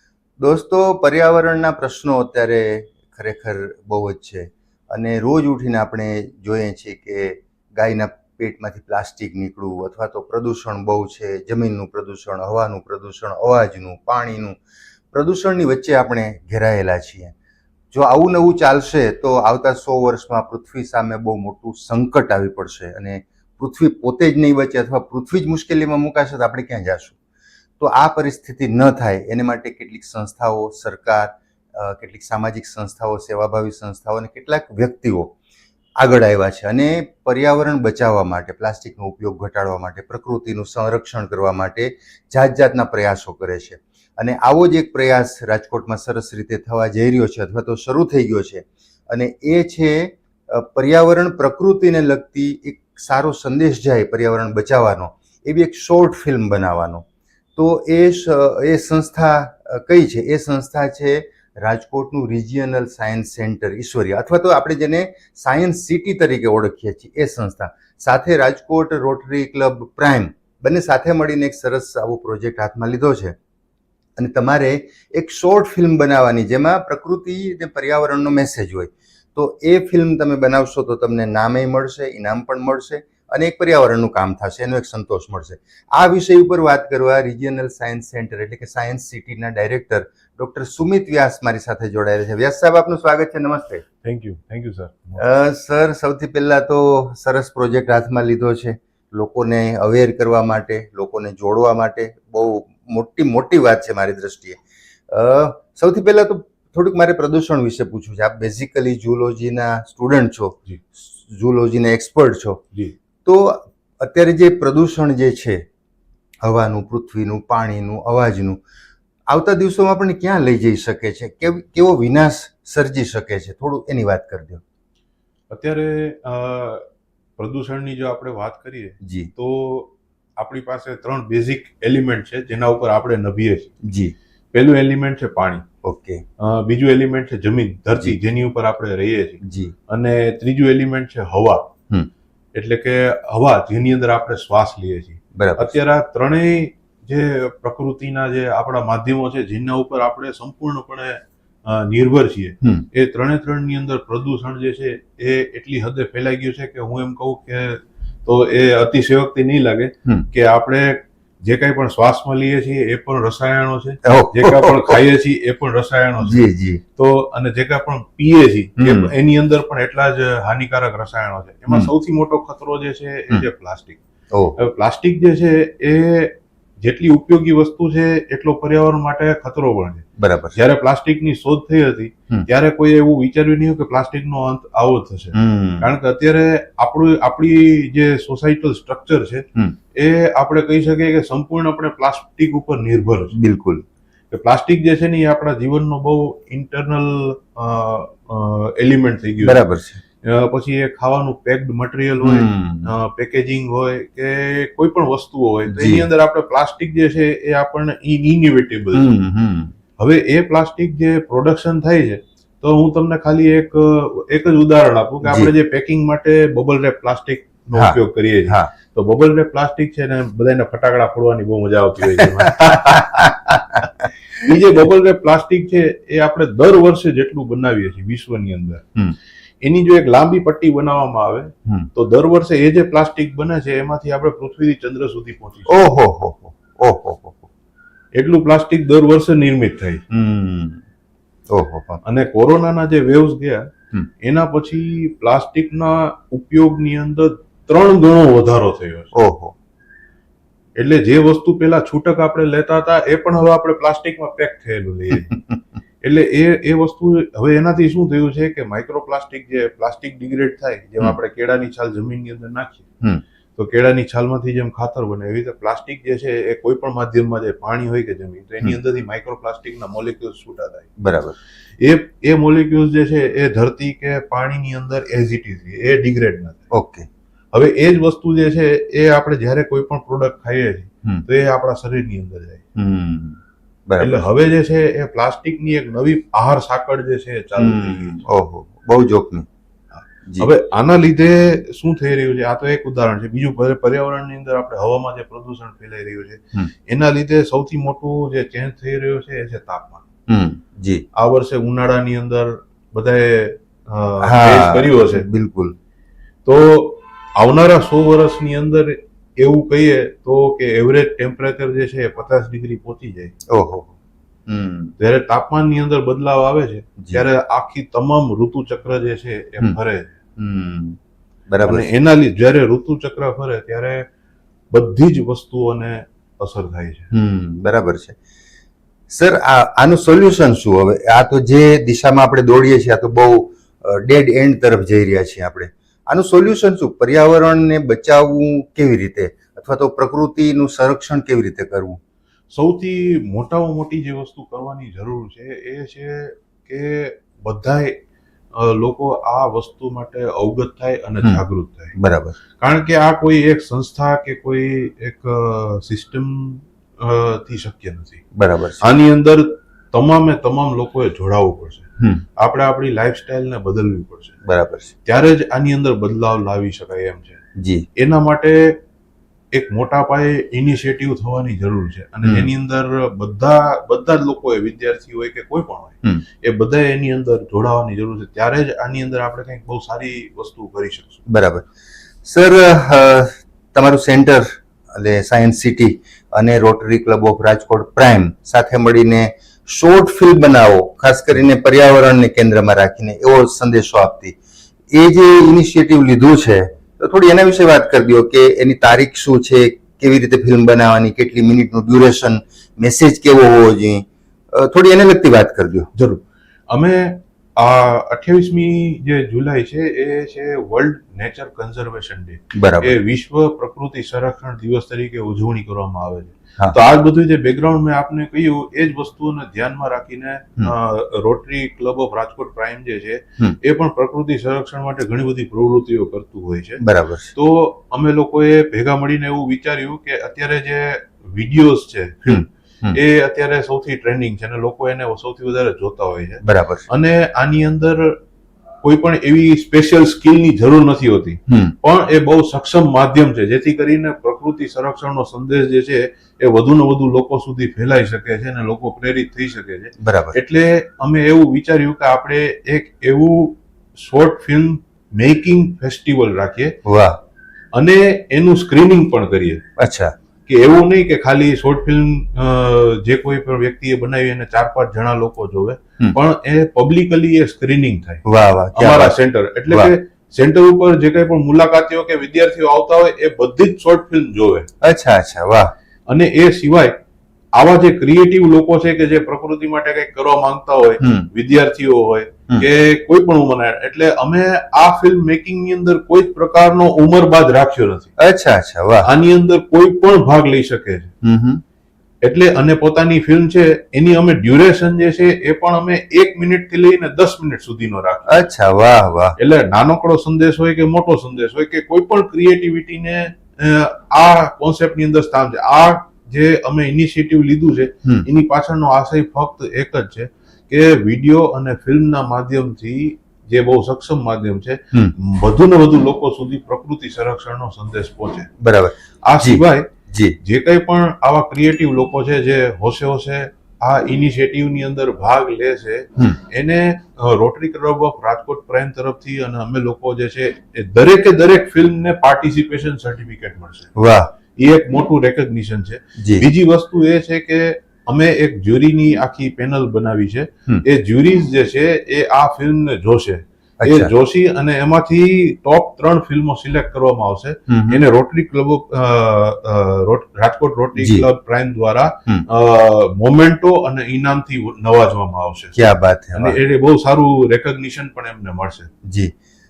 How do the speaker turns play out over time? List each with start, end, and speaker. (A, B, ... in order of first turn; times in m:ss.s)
0:00.4-0:14.6 A
0:15.1-0:17.3 A
0:17.9-0:27.2 A
0:27.8-0:35.4 A
0:36.0-0:57.0 A
0:57.6-1:13.4 A
1:14.2-1:33.8 A
1:34.0-1:35.2 B
1:35.2-1:44.6 A
1:45.1-1:52.6 A
1:53.2-1:55.6 A
1:56.4-1:58.6 A
1:59.3-2:04.6 A
2:05.5-2:06.9 B
2:07.4-2:13.7 B
2:09.0-2:09.3 A
2:13.8-2:14.1 A
2:14.5-2:15.6 B
2:15.8-2:16.2 A
2:16.4-2:21.7 B
2:19.4-2:19.7 A
2:22.6-2:54.0 B
2:25.4-2:25.8 A
2:32.6-2:32.9 A
2:44.0-2:45.0 A
2:46.2-2:46.8 A
2:48.8-2:49.1 A
2:54.3-2:54.6 A
2:54.6-3:13.4 B
3:00.2-3:00.6 A
3:05.3-3:05.9 A
3:13.4-3:13.8 A
3:14.3-3:19.6 B
3:19.4-3:20.0 A
3:20.2-3:29.1 B
3:22.2-3:22.9 A
3:25.7-3:26.1 A
3:28.9-3:29.7 A
3:30.0-3:48.8 B
3:35.2-3:35.5 A
3:37.8-3:38.7 A
3:42.2-3:43.8 A
3:49.6-3:55.8 B
3:55.7-3:57.5 A
3:58.2-4:00.0 B
4:00.1-4:00.8 A
4:01.5-4:02.0 A
4:02.0-4:03.7 B
4:04.2-4:09.1 B
4:09.2-4:09.5 A
4:10.8-4:15.3 B
4:15.2-4:15.6 A
4:16.0-4:22.9 B
4:23.6-4:30.9 B
4:31.0-4:31.4 A
4:31.8-4:36.6 B
4:36.7-4:37.1 A
4:37.5-4:42.6 B
4:42.8-4:44.2 A
4:44.0-4:48.2 B
4:47.6-4:49.5 A
4:49.9-5:00.0 B
5:00.3-5:01.0 A
5:01.2-5:05.3 B
5:04.2-5:05.8 A
5:06.4-5:13.3 B
5:13.5-5:13.9 A
5:14.5-5:15.0 A
5:15.0-5:20.1 B
5:20.4-5:21.0 A
5:21.5-5:21.9 A
5:21.6-5:24.1 B
5:24.7-5:27.1 B
5:27.1-5:28.2 A
5:29.1-5:42.0 A
5:42.5-5:48.0 B
5:48.5-5:52.0 B
5:52.0-5:52.4 A
5:52.6-5:58.2 B
5:58.4-5:58.8 A
5:58.8-6:04.4 B
6:02.0-6:02.2 A
6:04.4-6:04.9 A
6:05.0-6:07.4 B
6:07.6-6:07.8 A
6:08.0-6:08.8 B
6:09.5-6:21.2 B
6:12.2-6:12.5 A
6:21.3-6:21.7 A
6:22.2-6:34.4 A
6:34.9-6:45.9 A
6:46.0-7:18.2 B
6:52.5-6:53.0 A
7:06.8-7:07.3 A
7:12.3-7:13.0 A
7:16.4-7:16.8 A
7:18.8-7:36.8 B
7:21.5-7:21.8 A
7:30.0-7:30.4 A
7:36.8-7:37.2 A
7:37.7-7:39.6 B
7:39.8-7:40.1 A
7:40.5-7:48.2 B
7:48.3-7:49.2 A
7:48.8-7:54.7 B
7:54.8-7:55.7 A
7:56.1-7:57.0 B
7:57.6-8:08.1 B
8:01.0-8:01.3 A
8:08.2-8:09.1 A
8:09.0-8:11.1 B
8:11.2-8:11.6 A
8:12.2-8:18.4 B
8:18.3-8:19.4 A
8:19.4-8:38.5 B
8:38.6-8:40.4 A
8:39.2-8:39.9 B
8:40.4-8:53.9 B
8:54.0-8:54.3 A
8:54.6-9:15.8 B
8:56.2-8:56.5 A
9:03.8-9:04.1 A
9:07.7-9:08.0 A
9:11.0-9:11.3 A
9:15.8-9:16.6 A
9:16.4-9:18.9 B
9:19.0-9:19.3 A